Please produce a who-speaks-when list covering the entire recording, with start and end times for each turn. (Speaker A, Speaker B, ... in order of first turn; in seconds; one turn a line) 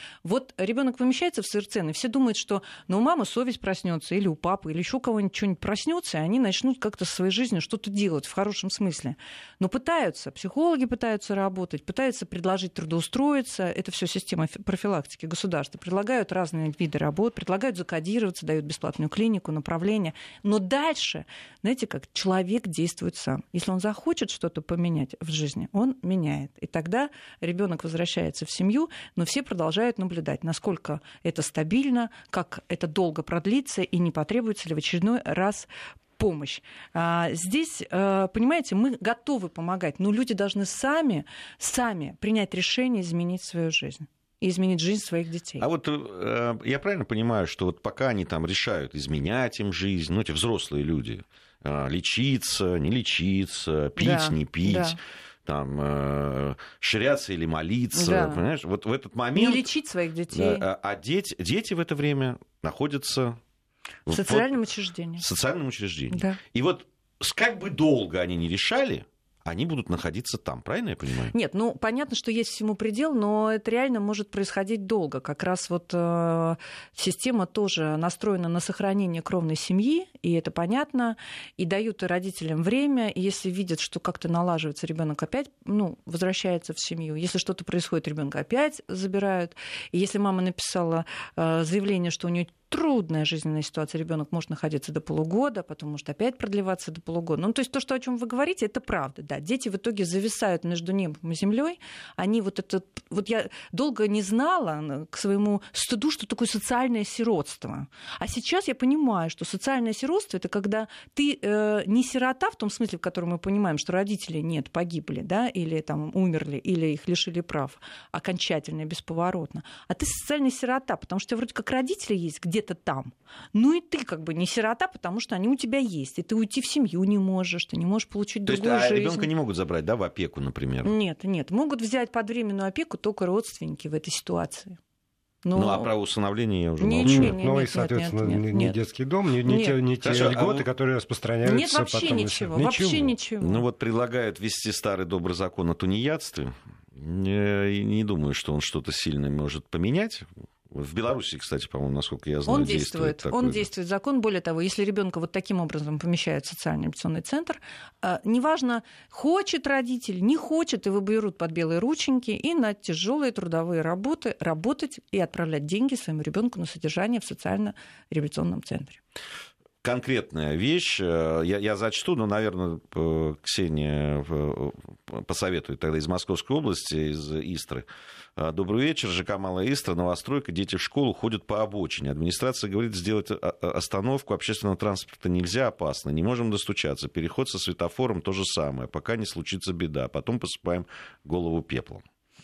Speaker A: 0.2-45.6
Speaker B: 45.6-59.6
Speaker A: 54.0-55.0
Speaker A: 57.9-58.4
Speaker A: 59.4-60.6
Speaker B: 60.3-63.4
Speaker B: 64.0-64.6
Speaker A: 64.1-65.2
Speaker B: 65.2-71.3
Speaker A: 66.1-66.4
Speaker A: 71.3-129.3
Speaker B: 128.4-130.9
Speaker A: 130.8-134.8
Speaker A: 135.4-135.9
Speaker B: 135.5-137.3
Speaker A: 136.8-138.8
Speaker C: 137.0-143.1
Speaker A: 139.4-139.8
Speaker B: 140.0-140.7
Speaker A: 141.4-143.6
Speaker B: 143.4-153.7
Speaker A: 152.5-169.0
Speaker B: 169.8-192.0